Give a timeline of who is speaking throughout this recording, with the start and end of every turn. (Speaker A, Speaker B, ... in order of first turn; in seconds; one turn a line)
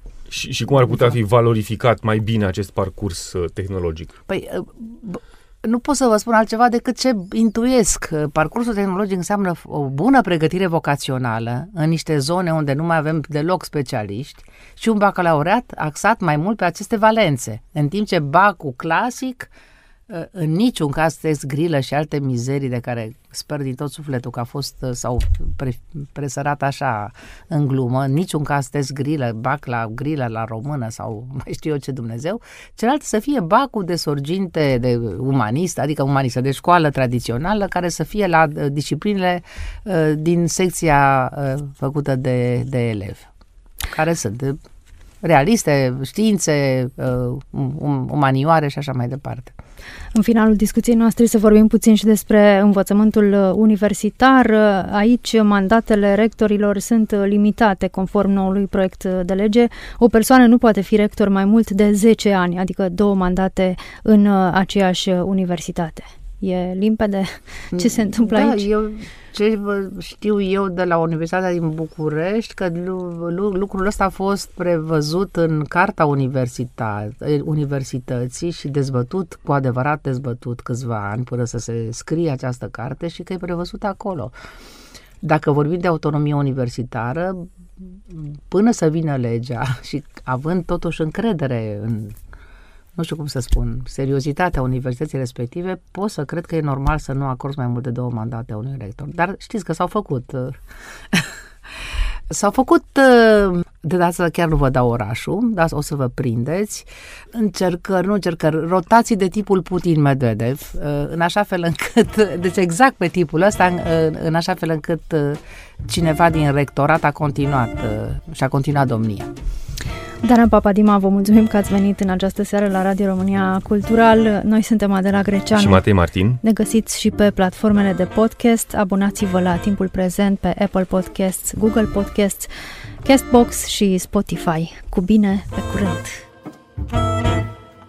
Speaker A: 0.3-4.2
Speaker B: 4.3-19.5
Speaker B: 20.1-43.3
Speaker B: 43.9-44.6
Speaker B: 45.2-49.5
Speaker C: 50.1-68.7
Speaker B: 67.7-84.3
Speaker B: 85.2-92.2
Speaker B: 93.0-101.3
Speaker B: 102.3-119.3
Speaker C: 120.2-125.8
Speaker A: 125.5-126.4
Speaker C: 126.4-132.5
Speaker C: 133.1-136.2